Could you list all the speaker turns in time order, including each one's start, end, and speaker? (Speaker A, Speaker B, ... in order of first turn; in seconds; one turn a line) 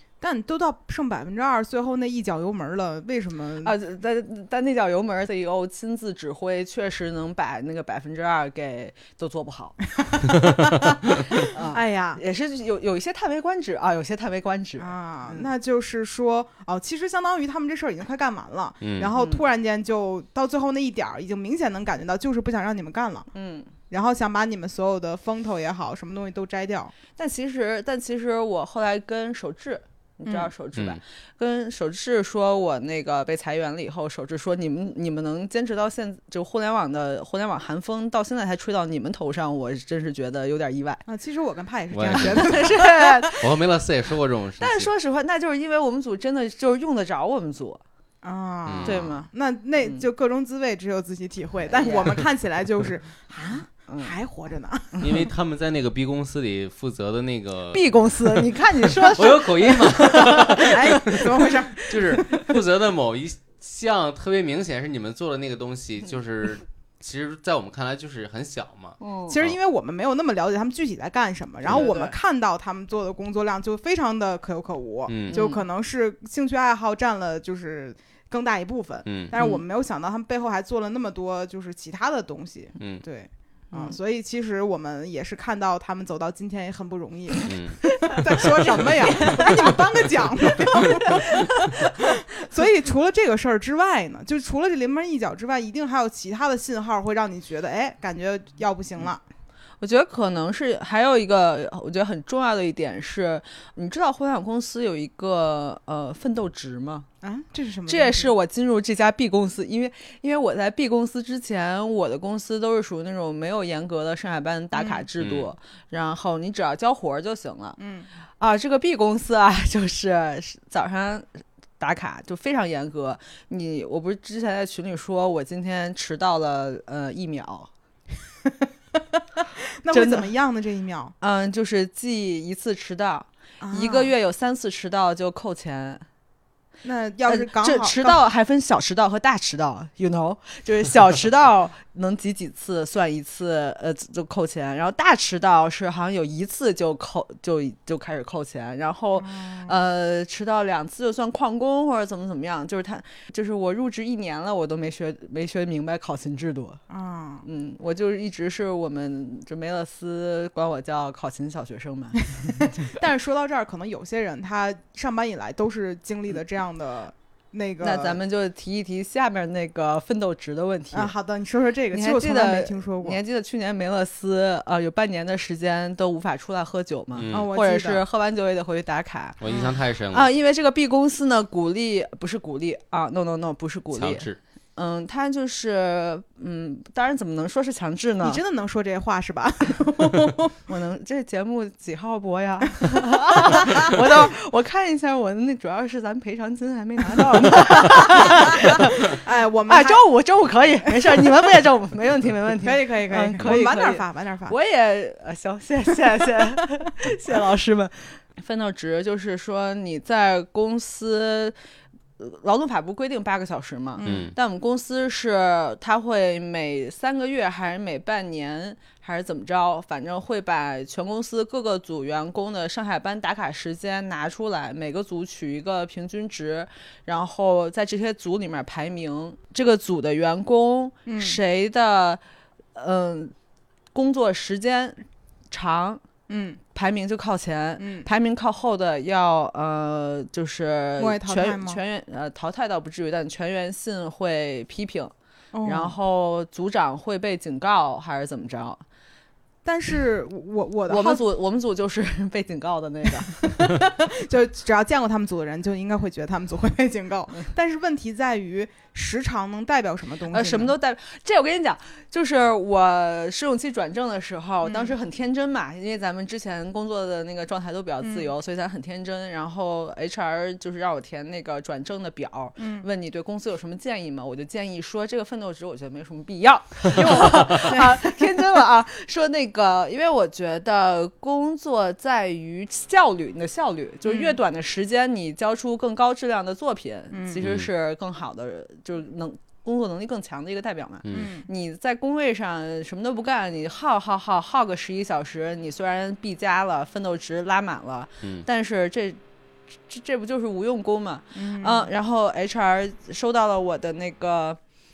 Speaker A: 0.2-3.7
Speaker B: 3.6-9.8
Speaker A: 10.0-12.2
Speaker B: 11.3-15.5
Speaker A: 14.8-23.3
Speaker C: 18.8-19.1
Speaker B: 19.2-19.4
Speaker B: 23.3-23.7
Speaker A: 23.9-26.9
Speaker B: 27.1-41.0
Speaker A: 30.2-30.5
Speaker A: 41.1-43.3
Speaker C: 41.9-42.8
Speaker B: 42.1-43.5
Speaker C: 43.4-44.9
Speaker B: 44.6-47.8
Speaker A: 48.2-55.3
Speaker C: 48.7-49.0
Speaker B: 48.8-49.3
Speaker B: 51.7-52.2
Speaker B: 53.9-54.1
Speaker C: 55.0-61.2
Speaker B: 57.7-62.5
Speaker A: 60.6-62.5
Speaker C: 61.9-69.6
Speaker B: 69.0-69.4
Speaker A: 69.3-99.2
Speaker B: 71.7-72.2
Speaker C: 75.1-75.4
Speaker B: 75.3-75.6
Speaker C: 79.1-79.3
Speaker B: 79.3-79.6
Speaker C: 87.5-87.8
Speaker B: 89.1-89.7
Speaker B: 99.8-107.1
Speaker A: 107.2-108.3
Speaker B: 107.9-117.8
Speaker A: 114.7-115.1
Speaker C: 115.2-115.5
Speaker A: 117.8-118.1
Speaker B: 118.4-127.7
Speaker A: 128.4-129.2
Speaker A: 129.7-131.2
Speaker B: 129.9-130.3
Speaker B: 131.2-136.1
Speaker A: 133.6-134.1
Speaker A: 136.8-138.2
Speaker B: 137.3-156.8
Speaker A: 149.2-149.7
Speaker A: 156.9-157.5
Speaker B: 157.4-162.8
Speaker A: 162.4-168.2
Speaker B: 167.8-171.1
Speaker A: 170.9-173.2
Speaker B: 171.9-179.4
Speaker C: 177.2-177.5
Speaker A: 177.3-178.0
Speaker C: 179.4-180.3
Speaker A: 179.5-179.7
Speaker B: 180.1-188.4
Speaker C: 183.9-184.4
Speaker A: 188.2-190.6
Speaker B: 190.7-211.6
Speaker A: 192.8-193.9
Speaker A: 197.0-200.0
Speaker A: 200.9-201.2
Speaker A: 202.6-204.5
Speaker B: 212.2-232.2
Speaker A: 214.0-214.3
Speaker C: 214.0-214.4
Speaker A: 231.1-231.4
Speaker B: 232.7-233.3
Speaker B: 233.9-236.0
Speaker A: 236.3-236.6
Speaker B: 236.7-245.1
Speaker A: 237.8-238.1
Speaker A: 241.0-241.8
Speaker A: 245.5-245.9
Speaker B: 245.7-248.8
Speaker A: 249.7-251.2
Speaker B: 250.9-253.5
Speaker A: 253.4-260.7
Speaker B: 260.3-299.2
Speaker A: 264.6-264.9
Speaker A: 268.0-268.3
Speaker A: 272.6-272.9
Speaker A: 276.9-278.0
Speaker A: 284.1-284.4
Speaker A: 287.1-287.4
Speaker C: 287.4-287.7
Speaker C: 291.1-291.3
Speaker A: 291.1-291.5
Speaker C: 298.2-298.5
Speaker B: 299.9-304.6
Speaker A: 301.4-301.9